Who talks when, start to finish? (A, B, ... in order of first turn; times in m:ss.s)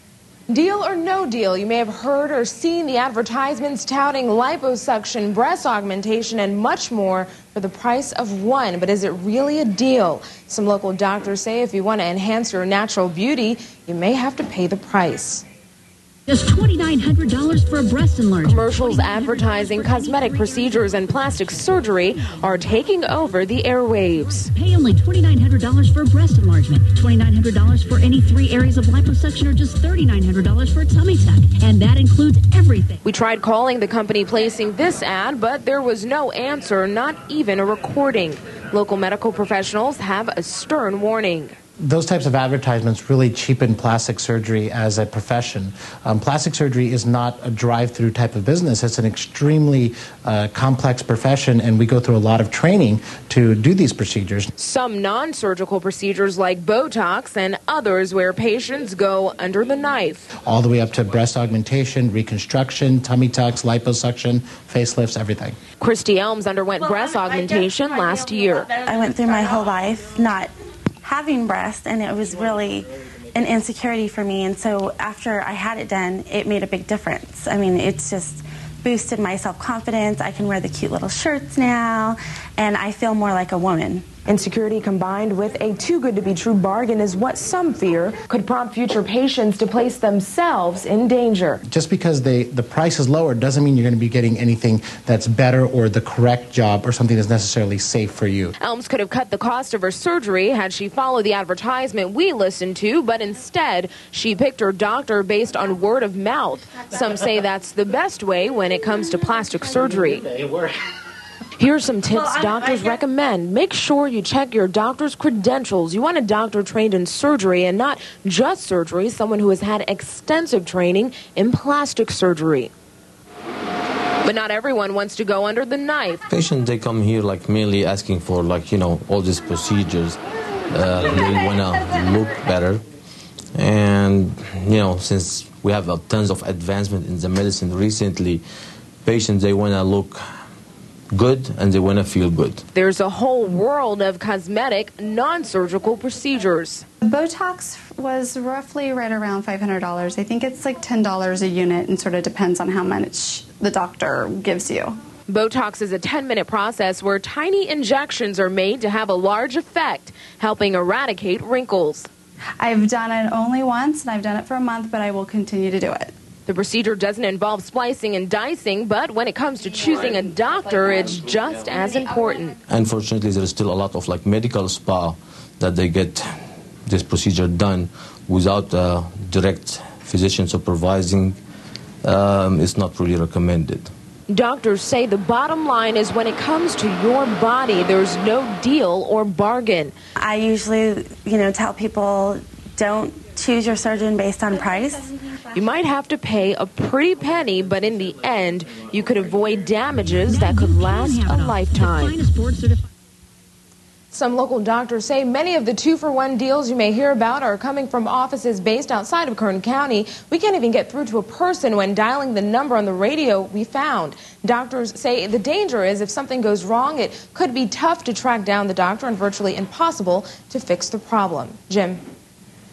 0:00.5-0:15.4 A
0:16.3-0:22.2 B
0:18.4-0:24.5 A
0:24.4-0:33.0 B
0:33.0-0:41.5 A
0:41.8-0:54.5 C
0:54.6-1:00.3 A
1:00.4-1:05.6 C
1:05.8-1:08.7 A
1:08.8-1:10.5 D
1:11.0-1:24.0 D
1:24.2-1:31.6 A
1:31.7-1:38.5 C
1:38.6-1:50.3 A
1:51.6-2:02.7 A
2:04.2-2:06.2 A
2:06.3-2:10.2 E
2:10.7-2:12.8 E
2:13.5-2:18.4 E
2:19.0-2:20.2 E
2:21.1-2:22.6 E
2:22.7-2:26.8 A
2:27.0-2:35.0 F
2:35.3-2:42.1 A
2:42.6-2:46.1 F
2:46.4-2:52.6 A
2:52.7-2:56.3 E
2:56.9-3:01.4 E
3:02.0-3:03.9 E
3:04.3-3:09.9 A
3:10.2-3:15.1 D
3:15.5-3:22.2 A
3:20.0-3:22.9 B
3:24.1-3:42.0 A